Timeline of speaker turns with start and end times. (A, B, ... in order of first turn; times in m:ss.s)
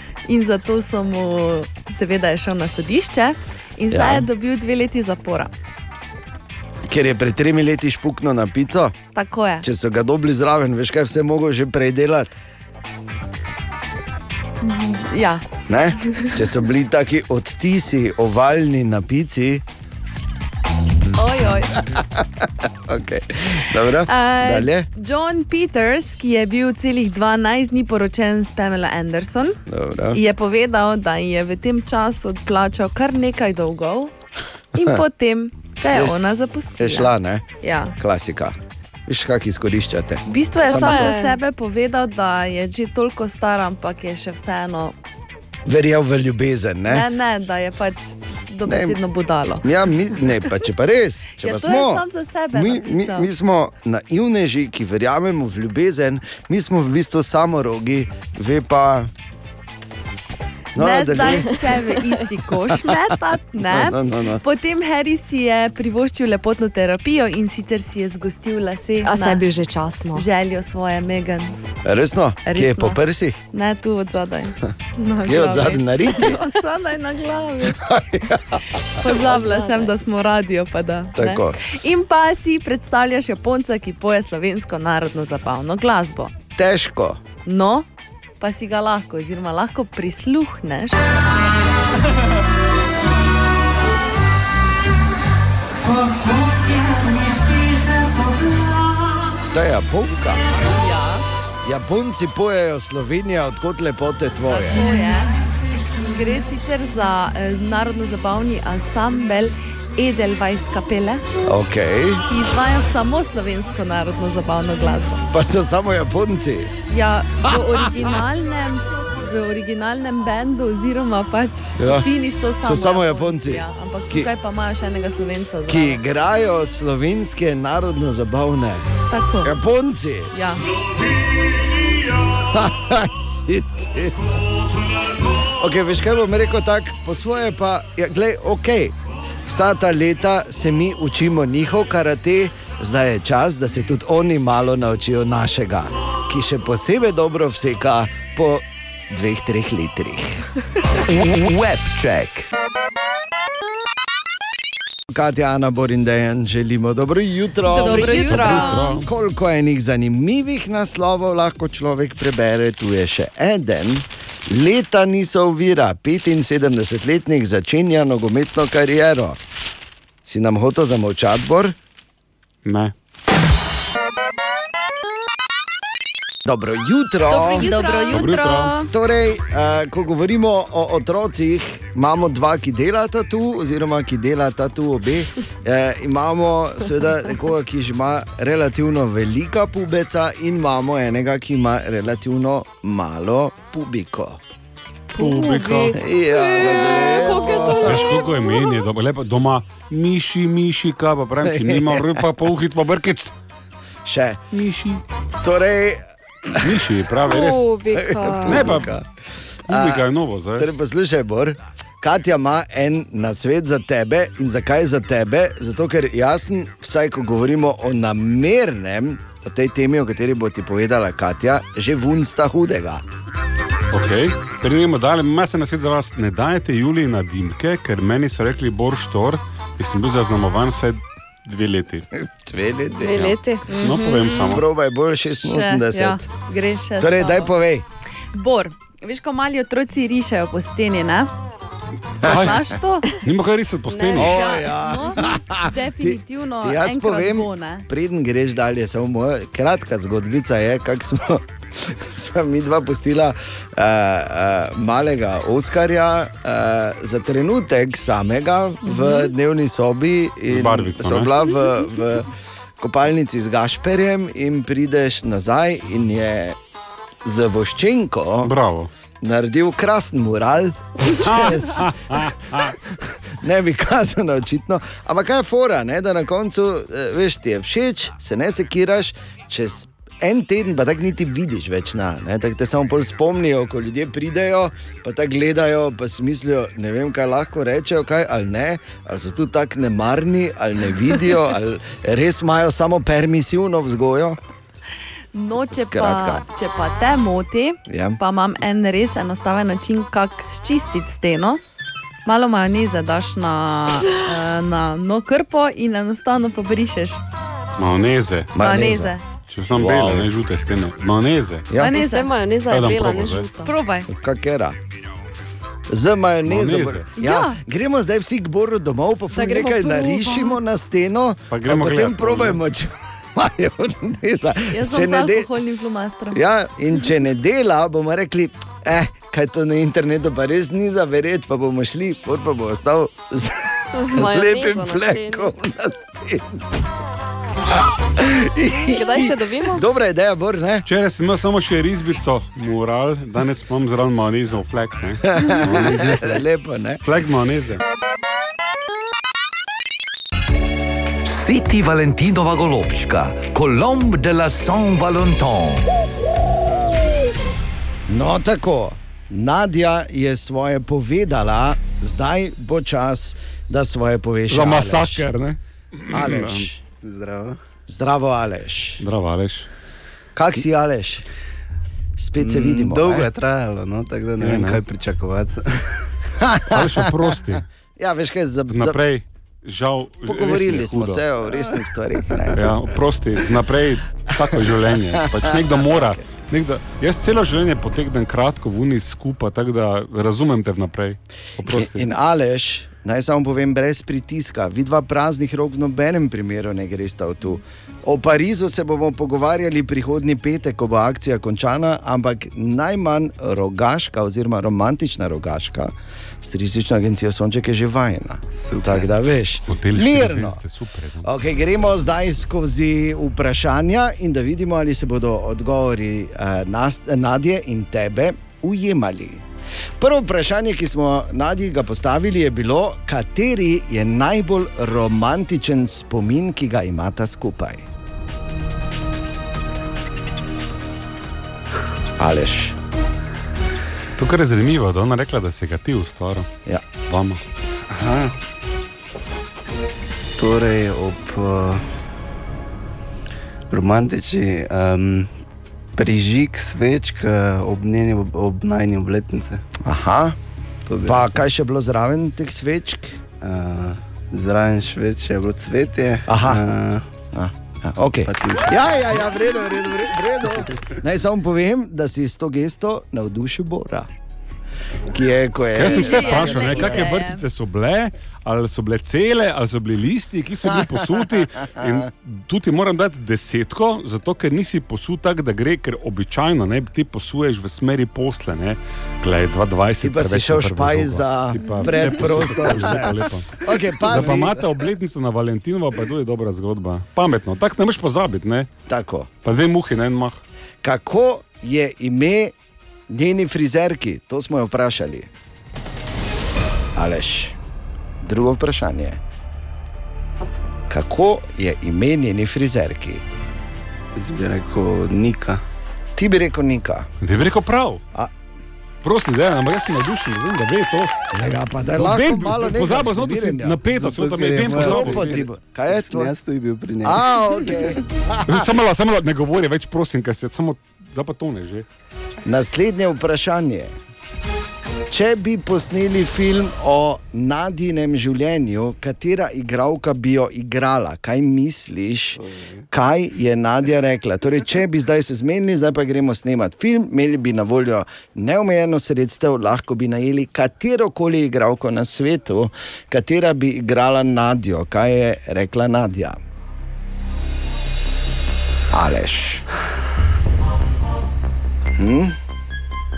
0:00.3-0:05.5 A
0:03.9-0:04.3 B
0:06.9-0:09.0 B
0:09.1-0:09.7 A
0:09.6-0:12.3 B
0:14.6-0:15.4 A
0:15.7-0:19.6 B
0:16.1-0:16.4 A
0:21.2-0:21.8 A
0:21.9-0:24.9 B
0:24.1-0:29.6 A
0:29.7-0:30.2 B
0:30.1-0:34.1 A
0:34.8-0:37.9 A
0:36.8-0:37.4 B
0:38.0-0:38.6 B
0:39.1-0:41.2 B
0:40.3-0:45.0 A
0:40.6-0:41.4 C
0:45.7-0:47.1 B
0:46.9-0:49.7 A
0:48.7-0:49.0 B
0:49.6-0:59.1 B
0:51.4-0:53.3 A
1:00.8-1:01.7 B
1:00.8-1:09.4 A
1:03.6-1:04.4 B
1:09.0-1:10.3 C
1:10.1-1:11.6 A
1:11.8-1:13.4 B
1:12.5-1:13.0 A
1:13.5-1:17.8 A
1:15.2-1:16.4 B
1:17.7-1:18.6 B
1:19.0-1:26.3 A
1:19.0-1:19.9 C
1:21.2-1:21.6 B
1:26.6-1:27.2 B
1:27.4-1:27.9 A
1:28.4-1:31.0 A
1:39.5-1:40.4 B
1:40.6-1:41.2 A
1:41.6-1:44.8 B
1:44.5-1:45.3 A
1:46.1-1:51.2 A
1:51.5-1:52.2 B
1:52.3-1:55.2 A
1:55.3-1:56.7 B
1:56.9-2:06.0 A
1:57.5-1:57.9 B
2:01.8-2:02.1 B
2:02.6-2:04.3 B
2:05.7-2:08.9 B
2:09.1-2:09.6 A
2:09.4-2:10.6 B
2:10.3-2:10.6 A
2:12.3-2:14.3 B
2:15.6-2:30.4 B
2:31.1-2:32.5 D
2:35.1-2:49.4 B
2:37.7-2:39.0 A
2:37.7-2:38.8 C
2:38.3-2:39.1 E
2:50.2-2:51.8 B
2:52.6-2:52.9 E
2:56.4-2:57.7 B
2:57.3-2:58.3 C
2:57.3-2:58.9 A
2:58.1-2:58.7 E
2:58.9-3:14.4 B
3:15.2-3:16.0 E
3:15.2-3:18.6 C
3:15.9-3:18.1 B
3:17.8-3:23.3 E
3:21.4-3:22.2 B
3:24.0-3:24.4 B
3:24.5-3:25.0 E
3:25.4-3:26.8 B
3:26.6-3:27.7 E
3:27.3-3:28.8 C
3:27.9-3:29.1 B
3:28.4-3:28.9 E
3:29.7-3:30.7 E
3:29.7-3:43.0 B
3:43.9-3:52.1 E
3:52.2-3:53.4 B
3:53.0-3:53.6 C
3:53.1-3:54.6 E
3:53.7-3:54.5 A
3:54.5-3:56.2 B
3:55.4-3:57.5 A
3:57.0-3:57.8 B
3:58.3-4:01.3 A
4:02.2-4:04.4 E
4:02.2-4:03.1 A
4:03.9-4:04.7 C
4:04.2-4:22.3 B
4:04.3-4:07.9 A
4:20.5-4:21.3 E
4:22.8-4:26.6 B
4:27.2-4:28.5 B
4:28.4-4:28.9 E
4:29.2-4:54.4 B
4:31.1-4:32.8 E
4:55.3-5:01.6 A
4:55.7-4:56.4 B
4:57.9-4:58.2 B
5:02.3-5:07.2 A
5:07.8-5:08.5 E
5:08.5-5:09.2 B
5:08.6-5:09.2 A
5:09.5-5:11.7 E
5:09.8-5:10.3 B
5:11.7-5:12.0 B
5:11.8-5:12.3 A
5:11.8-5:13.7 C
5:12.7-5:13.5 E
5:13.6-5:14.1 A
5:14.1-5:14.8 B
5:15.9-5:25.5 B
5:16.5-5:17.1 E
5:17.2-5:17.6 A
5:19.3-5:20.6 C
5:21.5-5:22.6 E
5:24.7-5:26.4 A
5:26.3-5:36.6 B
5:34.0-5:35.5 C
5:38.2-5:40.9 B
5:38.7-5:39.8 C
5:40.9-5:46.4 E
5:45.3-5:47.0 B
5:47.0-5:47.8 E
5:51.2-5:55.9 D
5:58.1-6:05.3 B
6:04.5-6:06.7 E
6:06.1-6:06.8 B
6:07.0-6:07.6 F
6:07.9-6:09.0 B
6:09.0-6:09.7 E
6:10.4-6:11.2 B
6:12.2-6:13.3 B
6:12.4-6:16.0 F
6:14.4-6:14.8 E
6:16.4-6:17.3 B
6:16.7-6:17.6 E
6:18.0-6:19.0 B
6:18.7-6:21.2 E
6:20.2-6:22.8 B
6:22.5-6:32.1 E
6:24.4-6:26.2 B
6:31.6-6:50.6 B
6:48.5-6:49.2 F
6:49.7-6:51.3 E
6:51.2-6:59.4 B
7:00.0-7:07.8 B
7:12.2-7:12.8 B
7:14.2-7:16.5 E
7:17.1-7:17.4 E
7:17.9-7:18.3 F
7:20.4-7:21.8 F
7:23.7-7:25.3 F
7:26.0-7:29.6 F
7:29.8-7:30.4 B
7:30.9-7:31.3 F
7:31.0-7:33.2 B
7:33.4-7:37.0 F
7:36.3-7:36.6 B
7:37.3-7:44.1 B
7:38.2-7:38.8 F
7:45.1-7:47.2 B
7:45.8-8:08.7 E
7:45.8-7:47.4 A
7:50.7-7:52.0 B
8:00.0-8:04.7 B
8:08.9-8:09.3 B
8:09.4-8:10.4 E
8:10.8-8:12.5 B
8:13.1-8:15.3 B
8:17.0-8:17.6 B
8:18.2-8:19.2 B
8:20.9-8:23.2 B
8:24.2-8:25.6 F
8:26.2-8:27.1 B
8:27.2-8:28.0 E
8:29.0-8:31.1 E
8:31.3-8:33.8 B
8:32.0-8:35.4 E
8:33.9-8:37.6 F
8:34.5-8:36.3 B
8:37.0-8:38.7 B
8:38.5-8:41.9 E
8:42.4-8:43.9 B
8:45.1-9:06.4 B
8:52.4-8:52.8 F
9:08.9-9:09.7 B
9:12.0-9:12.4 B